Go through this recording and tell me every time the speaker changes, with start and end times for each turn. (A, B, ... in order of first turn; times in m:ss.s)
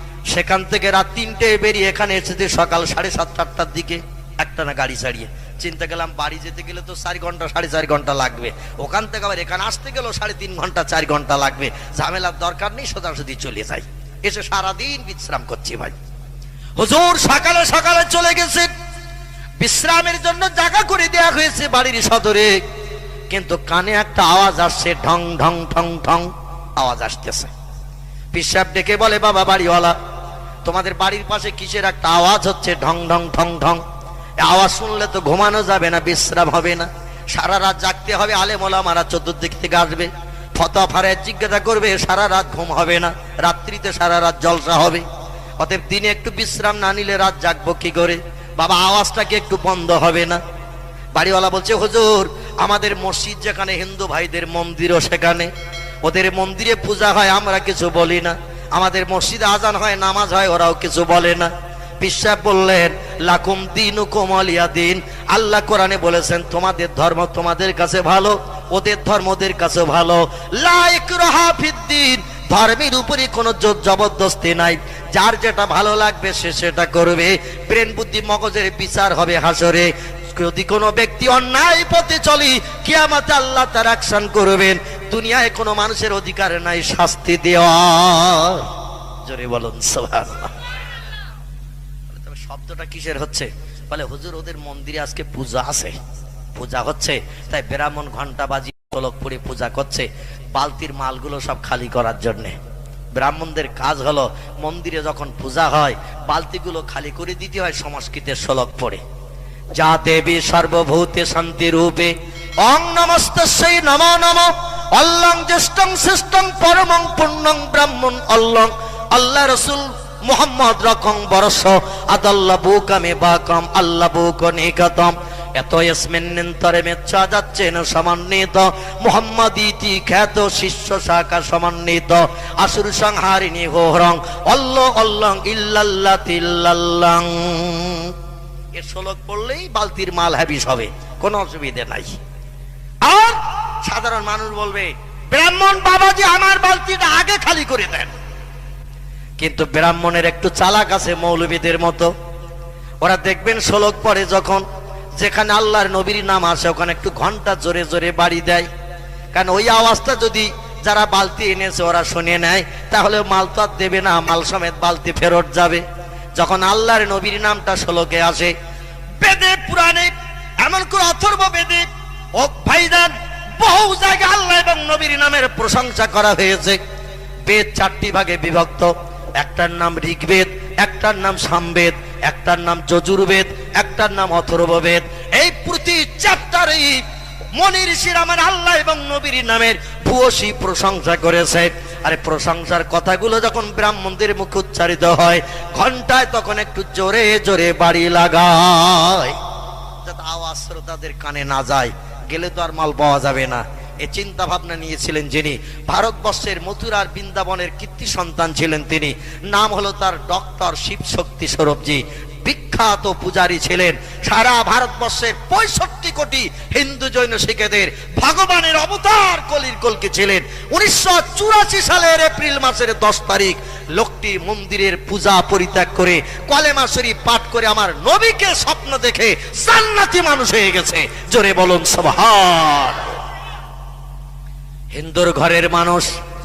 0:00.3-0:16.0 A
0:16.8-0:18.7 A
0:19.6-0:22.5 A
0:23.3-0:27.5 A
0:28.3-0:30.0 A
0:30.6-0:33.8 A
0:34.4-0:45.0 A
0:45.6-0:50.4 A
0:51.2-0:55.5 A
0:56.0-1:28.7 A
1:29.2-1:30.5 A
1:32.1-1:36.0 A
1:36.6-1:42.6 A
1:43.2-1:49.0 A
1:49.8-2:18.1 A
2:18.8-2:22.2 A
2:23.0-2:28.1 A
2:29.4-2:32.1 A
2:33.0-2:34.6 A
2:35.2-2:38.7 A
2:39.3-2:45.8 A
2:46.4-2:48.5 A
2:49.2-2:56.8 A
2:57.5-3:07.0 A
3:07.6-3:19.4 A
3:20.0-3:53.2 A
3:54.9-3:56.1 A